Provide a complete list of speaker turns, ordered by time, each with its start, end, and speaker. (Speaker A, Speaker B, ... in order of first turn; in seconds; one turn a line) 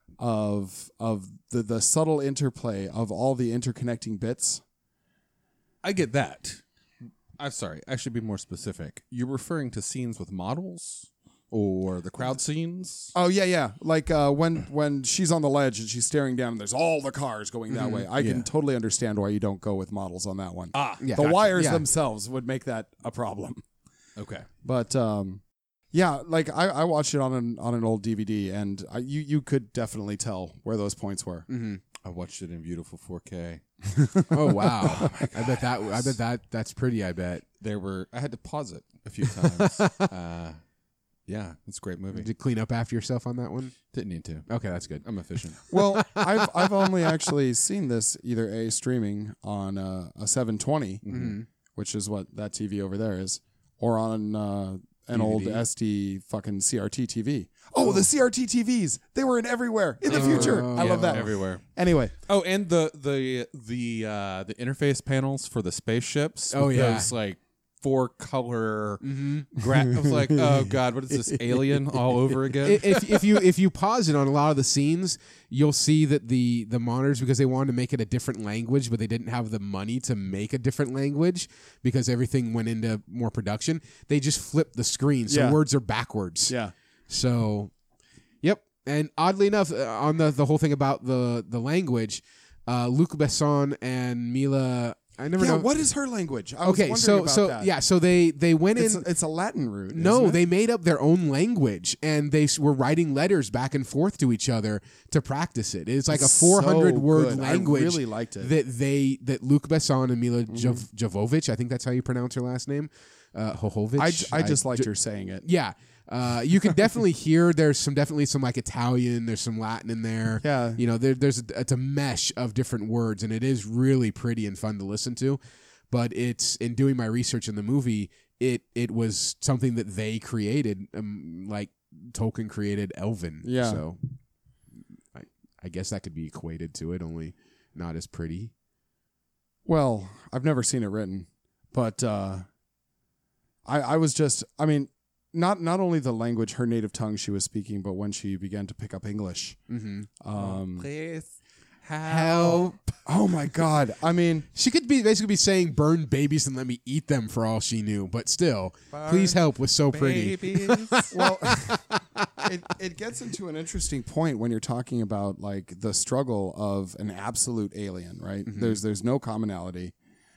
Speaker A: 0.2-4.6
Speaker B: 5.8-6.6
Speaker B: 7.4-13.1
Speaker A: 13.1-23.6
Speaker C: 17.7-18.1
Speaker B: 18.1-18.5
Speaker B: 20.7-21.3
Speaker C: 21.0-21.9
Speaker B: 24.2-24.5
Speaker A: 24.6-31.5
Speaker C: 31.5-31.8
Speaker B: 32.0-33.6
Speaker A: 34.0-35.6
Speaker C: 34.3-37.4
Speaker B: 37.6-40.6
Speaker C: 39.4-40.1
Speaker B: 41.3-42.3
Speaker C: 42.1-43.8
Speaker B: 43.9-44.5
Speaker C: 44.5-45.1
Speaker B: 45.0-45.6
Speaker C: 45.7-47.1
Speaker A: 45.7-51.0
Speaker B: 51.0-51.4
Speaker C: 51.1-51.5
Speaker A: 51.8-62.1
Speaker C: 55.1-55.6
Speaker B: 60.1-61.6
Speaker C: 60.1-61.2
Speaker B: 62.3-73.3
Speaker C: 66.5-67.1
Speaker C: 69.0-69.5
Speaker A: 70.0-72.0
Speaker C: 72.6-86.5
Speaker A: 85.3-85.6
Speaker A: 86.5-86.7
Speaker C: 87.1-87.7
Speaker C: 88.4-95.7
Speaker A: 95.4-97.7
Speaker C: 96.6-99.1
Speaker A: 98.8-100.4
Speaker C: 99.9-114.9
Speaker A: 106.1-108.5
Speaker A: 110.5-110.8
Speaker A: 114.0-115.5
Speaker C: 115.4-125.4
Speaker A: 120.4-120.8
Speaker C: 125.9-134.0
Speaker A: 133.4-133.8
Speaker C: 135.2-138.5
Speaker A: 139.7-142.5
Speaker A: 143.7-149.6
Speaker C: 149.7-150.1
Speaker A: 150.2-150.9
Speaker B: 150.4-151.3
Speaker B: 151.8-152.8
Speaker C: 152.1-152.8
Speaker A: 153.1-154.5
Speaker C: 154.5-162.0
Speaker B: 158.9-161.1
Speaker A: 161.1-161.8
Speaker A: 162.4-169.9
Speaker C: 168.5-168.8